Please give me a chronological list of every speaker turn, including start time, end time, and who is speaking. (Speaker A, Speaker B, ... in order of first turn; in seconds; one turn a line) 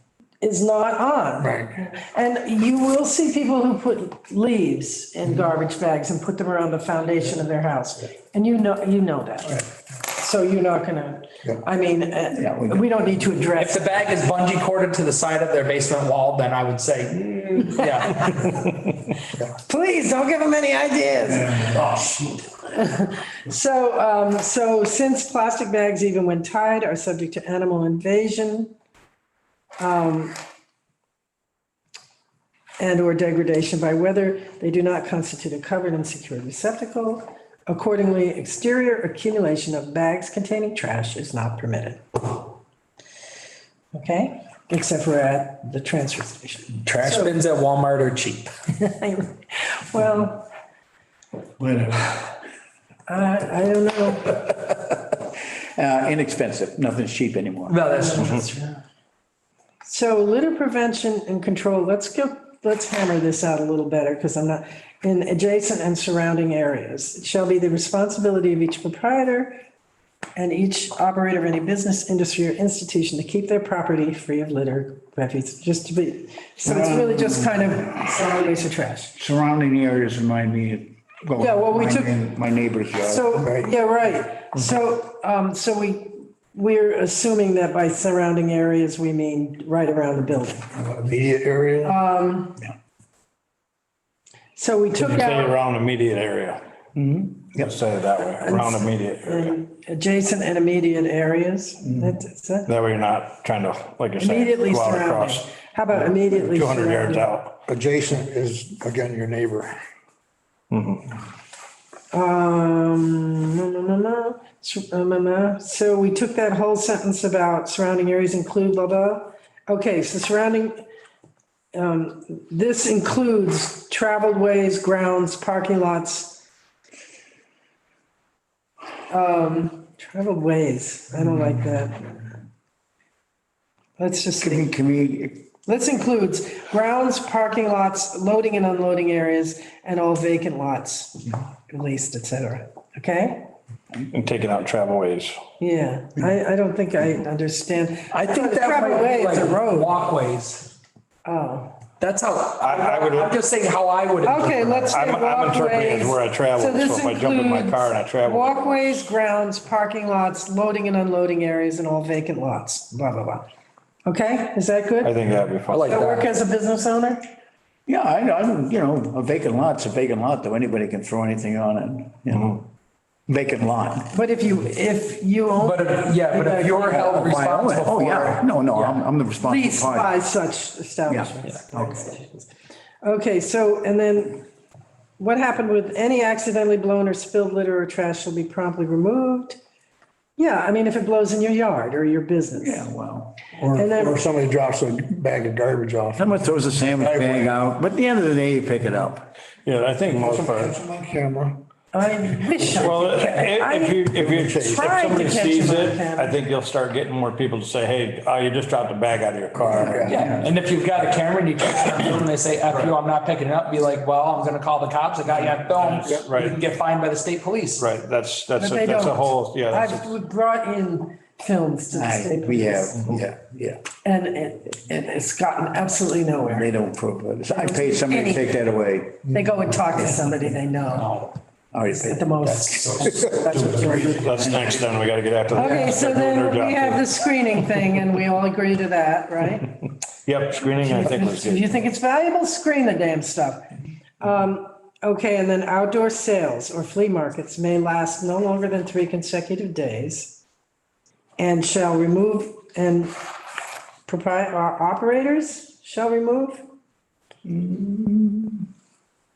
Speaker A: 0.4-14.2
Speaker B: 1.4-1.9
Speaker C: 12.3-12.9
Speaker D: 13.6-18.6
Speaker A: 17.7-18.6
Speaker A: 19.6-21.8
Speaker A: 22.6-28.7
Speaker A: 29.8-30.4
Speaker A: 32.8-42.5
Speaker A: 43.9-47.3
Speaker D: 46.8-48.5
Speaker A: 48.8-50.5
Speaker C: 51.6-52.2
Speaker A: 53.1-54.5
Speaker C: 54.5-57.8
Speaker D: 57.7-58.5
Speaker A: 58.1-58.8
Speaker A: 59.9-69.6
Speaker A: 70.4-79.1
Speaker C: 76.7-77.7
Speaker C: 79.2-83.3
Speaker A: 81.4-82.2
Speaker A: 83.0-90.7
Speaker B: 83.3-83.7
Speaker B: 90.7-92.0
Speaker A: 91.8-92.6
Speaker A: 94.6-95.6
Speaker E: 95.0-96.6
Speaker C: 97.0-97.7
Speaker E: 97.5-99.6
Speaker A: 98.2-102.7
Speaker E: 102.7-105.5
Speaker A: 104.2-107.3
Speaker E: 106.3-107.6
Speaker B: 107.7-109.8
Speaker E: 110.7-111.2
Speaker A: 112.1-120.9
Speaker A: 121.7-126.4
Speaker A: 129.1-132.1
Speaker A: 134.0-134.7
Speaker C: 134.4-135.5
Speaker A: 135.7-143.5
Speaker E: 144.1-145.4
Speaker A: 145.6-150.0
Speaker D: 148.1-150.7
Speaker A: 151.2-151.8
Speaker D: 152.0-155.0
Speaker E: 152.6-153.4
Speaker A: 154.2-163.5
Speaker E: 154.9-158.9
Speaker A: 164.1-165.1
Speaker E: 165.0-166.1
Speaker D: 165.7-166.3
Speaker A: 165.9-167.3
Speaker C: 167.9-172.7
Speaker C: 173.3-174.1
Speaker A: 174.1-177.2
Speaker D: 175.6-179.0
Speaker C: 177.0-180.1
Speaker A: 179.4-182.5
Speaker C: 181.1-182.0
Speaker A: 183.0-184.4
Speaker A: 185.2-189.6
Speaker A: 190.4-192.8
Speaker C: 192.6-193.4
Speaker B: 193.5-197.6
Speaker A: 193.7-194.2
Speaker C: 196.2-199.3
Speaker E: 199.7-200.8
Speaker B: 200.1-201.6
Speaker A: 201.9-204.0
Speaker B: 202.3-203.1
Speaker E: 202.7-210.2
Speaker B: 204.0-205.2
Speaker A: 204.6-206.4
Speaker B: 209.6-210.3
Speaker D: 210.1-217.8
Speaker E: 212.7-212.9
Speaker E: 216.0-216.6
Speaker E: 217.8-220.1
Speaker A: 218.6-223.2
Speaker C: 221.9-223.8
Speaker A: 224.0-226.7
Speaker C: 226.5-229.2
Speaker A: 227.5-228.5
Speaker A: 229.3-231.3
Speaker C: 231.7-233.8
Speaker A: 231.9-234.4
Speaker B: 233.1-234.3
Speaker E: 233.9-237.2
Speaker C: 234.5-234.7
Speaker A: 235.5-239.7
Speaker E: 240.2-241.7
Speaker A: 240.7-243.7
Speaker A: 244.2-250.4
Speaker A: 251.4-253.2
Speaker A: 254.1-256.7
Speaker C: 257.5-258.6